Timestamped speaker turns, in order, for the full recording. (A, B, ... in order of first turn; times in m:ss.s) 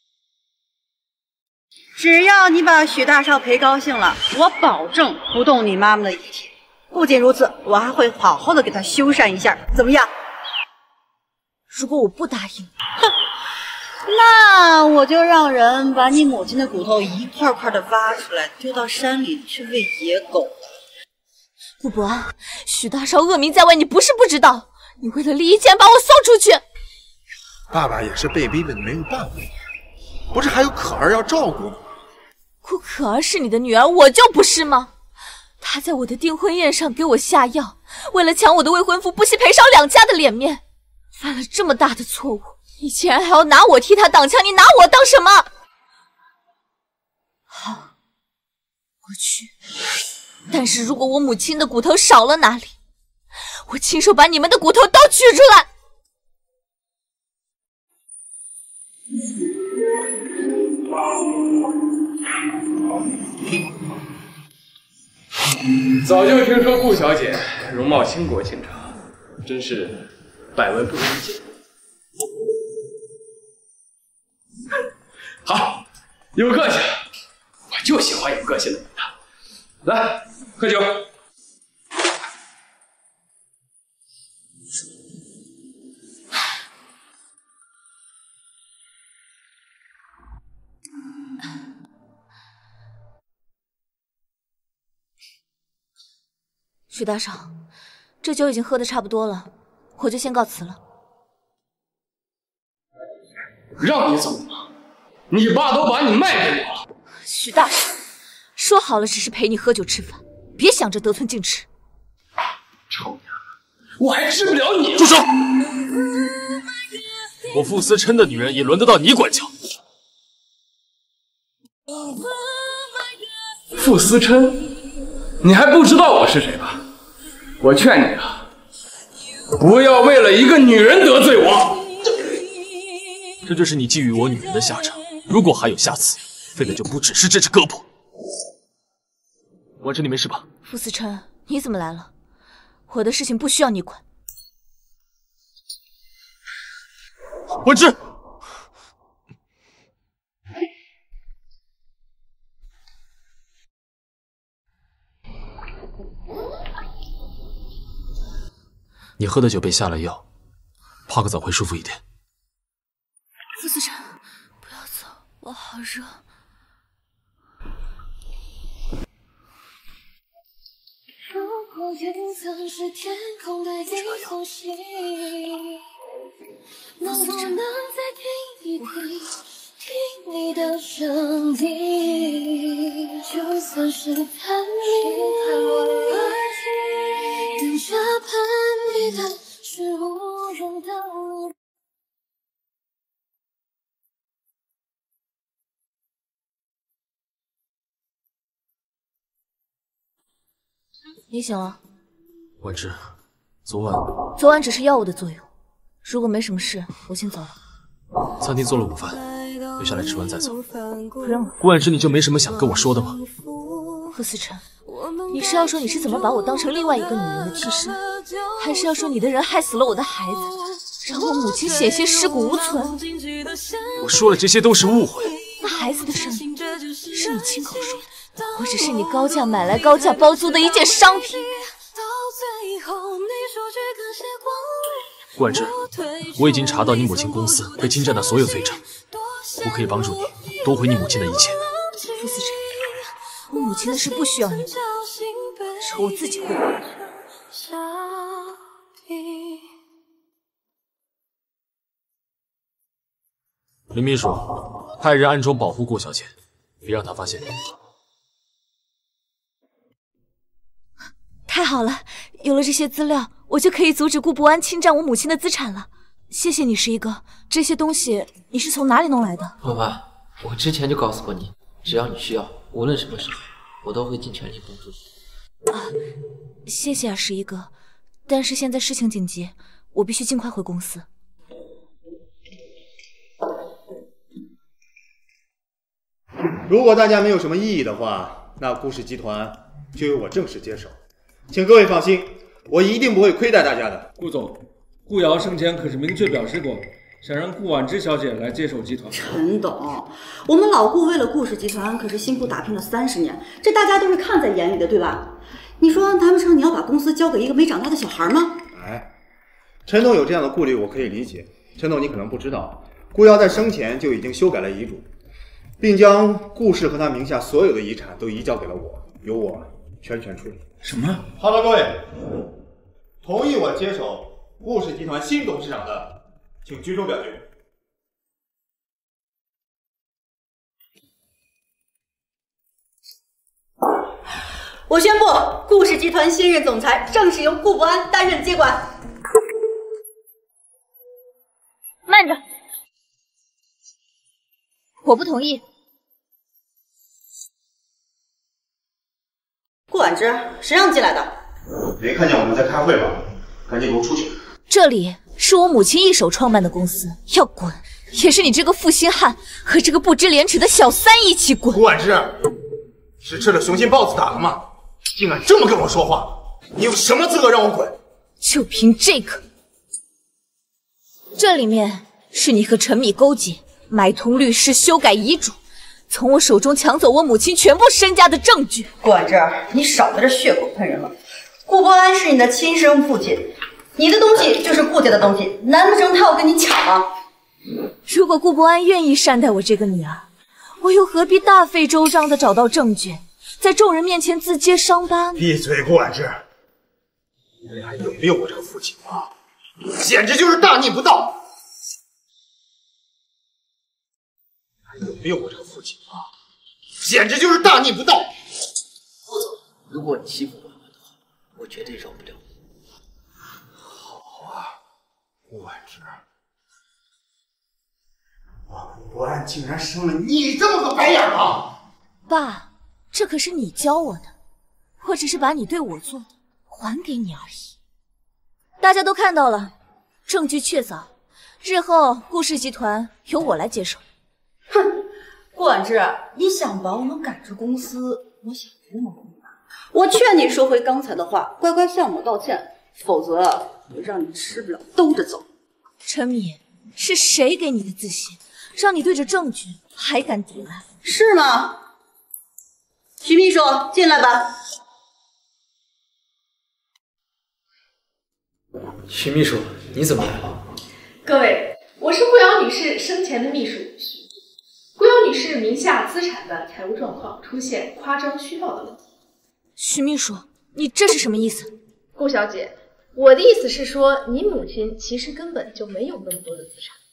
0:02.0-0:10.1 A
0:11.7-0:12.7 B
0:14.0-0:20.6 A
0:21.8-0:26.6 B
0:27.7-0:29.5 C
0:30.3-0:31.8 C
0:32.6-0:34.9 B
0:35.6-0:40.6 B
0:41.2-0:45.5 B
0:47.5-0:47.9 B
0:49.0-0:49.5 B
0:50.5-0:52.7 B
0:53.7-0:55.7 B
1:06.1-1:08.9 D
1:09.5-1:09.9 D
1:16.4-1:16.8 D
1:18.0-1:18.7 D
1:36.9-1:37.5 B
1:38.2-1:40.8 B
1:43.8-1:44.6 D
1:45.3-1:46.7 D
1:47.2-1:48.0 B
1:48.6-1:51.7 B
1:55.0-1:55.2 E
1:57.5-1:59.5 E
2:03.9-2:04.3 D
2:05.4-2:06.8 D
2:07.6-2:08.2 D
2:09.6-2:11.7 D
2:13.4-2:17.8 E
2:19.8-2:20.4 E
2:20.6-2:22.1 B
2:22.9-2:24.0 B
2:27.6-2:28.0 E
2:39.2-2:40.2 E
2:41.1-2:42.0 E
2:43.6-2:46.2 B
2:51.3-2:55.5 F
2:53.9-2:54.3 E
2:57.0-2:59.3 F
2:57.0-2:57.6 B
2:59.8-3:02.6 F
3:03.2-3:11.5 F
3:21.3-3:21.8 B
3:22.6-3:23.0 E
3:23.6-3:24.1 E
3:24.4-3:25.5 B
3:26.0-3:27.6 B
3:28.4-3:29.2 E
3:29.1-3:31.5 F
3:29.8-3:30.6 E
3:31.2-3:31.6 B
3:31.6-3:33.2 E
3:32.7-3:34.0 F
3:34.1-3:34.6 B
3:34.9-3:39.1 F
3:35.3-3:38.0 B
3:38.6-3:43.0 B
3:41.0-3:44.4 F
3:44.0-3:45.3 E
3:45.2-4:06.9 F
3:45.6-3:46.5 B
3:47.1-3:51.6 B
3:55.4-3:55.7 E
3:56.3-3:58.8 E
3:59.6-4:01.6 E
4:02.2-4:02.6 B
4:03.5-4:04.7 B
4:05.8-4:06.6 B
4:07.5-4:09.6 F
4:13.9-4:16.3 E
4:16.8-4:17.5 E
4:21.5-4:29.5 B
4:29.6-4:35.0 G
4:35.7-4:35.9 B
4:36.6-4:37.7 B
4:38.3-4:41.0 B
4:46.6-4:51.0 C
4:51.5-4:54.1 C
4:54.2-4:59.2 H
4:59.1-5:08.6 A
5:08.7-5:09.1 C
5:09.8-5:15.1 C
5:15.8-5:20.6 C
5:20.8-5:21.2 G
5:21.3-5:22.1 C
5:23.2-5:27.4 C
5:34.9-5:38.9 A
5:42.1-5:42.4 B
5:45.0-5:45.6 B
5:49.9-5:51.3 A
5:52.0-5:54.4 C
5:54.7-6:01.8 B
6:01.7-6:02.4 C
6:03.2-6:08.0 C
6:08.4-6:09.4 B
6:11.3-6:15.6 B
6:16.1-6:18.9 B
6:19.0-6:21.1 A
6:21.6-6:27.1 A
6:28.0-6:30.2 B
6:30.8-6:35.5 B
6:35.4-6:36.4 C
6:37.6-6:39.3 C
6:39.8-6:41.4 C
6:44.9-6:46.2 C
6:46.9-6:48.3 C
6:49.9-6:50.9 G
6:51.6-6:52.4 G
6:55.5-6:56.2 C
6:58.7-7:01.7 C
7:02.3-7:04.3 B
7:05.0-7:07.7 B
7:08.8-7:09.7 B
7:10.2-7:11.1 B
7:11.6-7:14.0 B
7:15.5-7:25.5 A
7:26.0-7:30.8 B
7:31.0-7:31.8 A
7:33.2-7:34.5 A
7:39.1-7:40.6 G
7:41.2-7:44.2 I
7:45.0-7:49.0 I
7:49.8-7:51.7 B
7:52.2-7:57.0 I